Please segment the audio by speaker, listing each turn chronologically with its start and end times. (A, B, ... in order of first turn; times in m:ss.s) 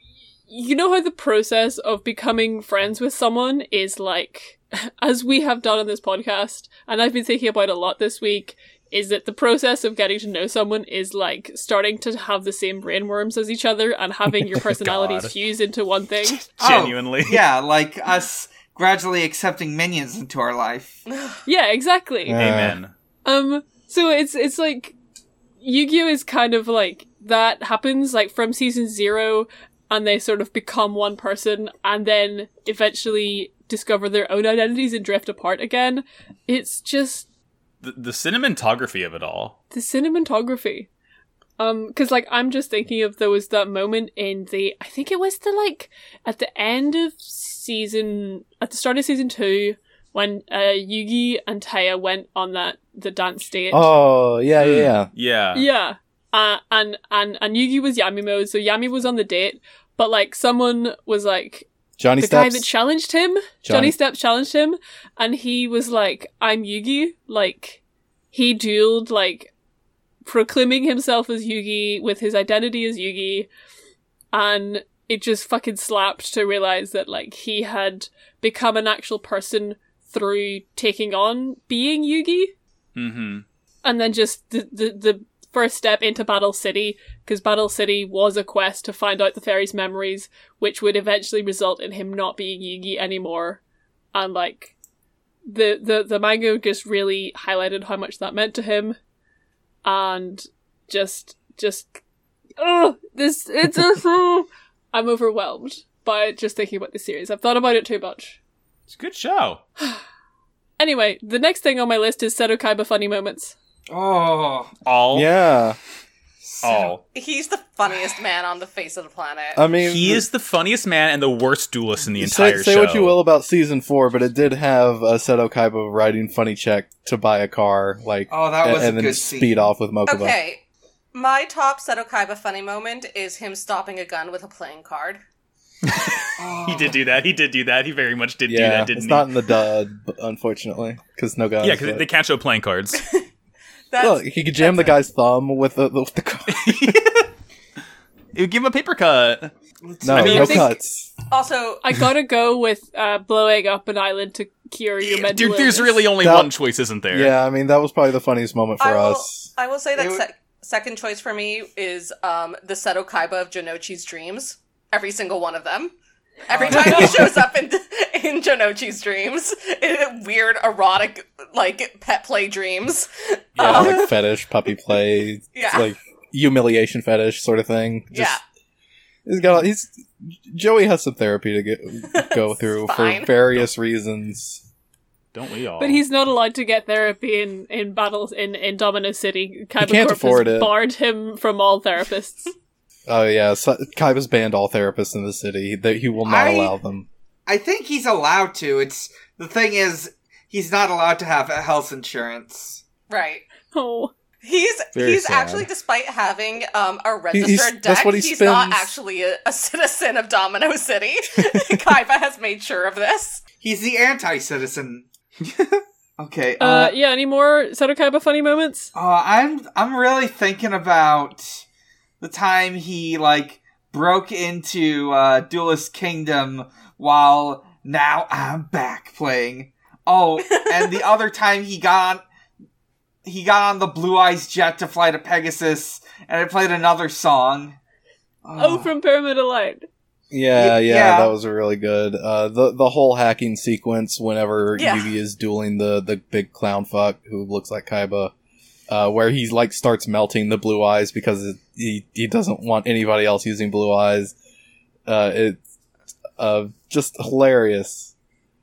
0:00.5-0:16.4 A
0:14.6-0:15.3 B
0:16.3-0:17.4 B
0:16.6-0:21.0 C
0:21.1-0:21.4 D
0:21.4-0:22.4 A
0:22.2-0:22.8 E
0:22.4-0:22.9 B
0:23.2-0:24.9 A
0:25.6-0:37.3 A
0:37.8-0:39.6 B
0:39.7-0:40.9 A
0:41.6-0:53.9 A
0:53.7-0:55.1 E
0:54.6-0:55.6 B
0:55.6-1:01.7 A
1:02.0-1:02.7 E
1:02.2-1:07.8 A
1:03.6-1:03.9 E
1:08.3-1:09.5 A
1:10.2-1:13.5 A
1:14.3-1:22.5 A
1:23.0-1:23.4 B
1:23.8-1:33.6 A
1:34.1-1:34.7 A
1:35.5-1:39.0 A
1:39.8-1:42.0 A
1:42.6-1:48.4 A
1:48.9-1:49.6 B
1:50.8-1:53.5 A
1:53.9-1:54.7 C
1:54.8-1:55.3 B
1:55.1-1:55.8 E
1:56.4-1:56.9 C
1:56.6-1:57.0 B
1:57.1-1:59.6 D
1:59.6-2:00.2 E
1:59.8-2:03.2 B
2:02.2-2:10.4 E
2:08.3-2:09.6 C
2:10.1-2:10.6 D
2:11.1-2:15.2 D
2:15.9-2:19.3 B
2:16.4-2:17.0 C
2:18.5-2:22.1 E
2:21.6-2:23.0 B
2:23.0-2:23.2 D
2:23.9-2:25.0 D
2:24.0-2:27.0 E
2:26.5-2:27.3 B
2:28.3-2:29.5 B
2:29.8-2:30.7 C
2:30.0-2:31.1 E
2:30.1-2:30.6 B
2:30.2-2:30.7 A
2:31.3-2:31.8 D
2:31.8-2:36.1 A
2:35.0-2:37.3 B
2:36.2-2:36.5 E
2:37.1-2:39.5 E
2:38.8-2:45.9 D
2:40.0-2:40.2 C
2:46.5-2:54.2 D
2:46.5-2:47.4 C
2:53.6-2:54.0 B
2:53.6-2:58.4 E
2:55.5-2:55.9 D
2:58.1-2:58.4 D
2:59.2-3:04.6 E
3:02.1-3:03.3 D
3:05.3-3:06.0 B
3:05.8-3:12.5 A
3:09.8-3:10.7 E
3:13.1-3:17.1 E
3:16.2-3:16.7 C
3:17.5-3:22.8 C
3:23.1-3:23.4 D
3:23.7-3:24.1 A
3:24.4-3:33.4 D
3:24.9-3:25.6 B
3:27.3-3:28.9 E
3:31.4-3:31.7 E
3:33.6-3:35.1 C
3:35.4-3:35.8 B
3:36.2-3:36.9 C
3:36.6-3:38.9 A
3:38.9-3:41.6 C
3:42.2-3:52.2 C
3:50.5-3:50.9 D
3:53.2-3:57.8 C
3:58.4-3:58.9 C
3:58.6-3:59.9 A
4:00.3-4:08.3 E
4:00.6-4:01.3 C
4:04.7-4:05.1 D
4:08.9-4:14.3 E
4:15.1-4:15.6 E
4:16.4-4:18.1 E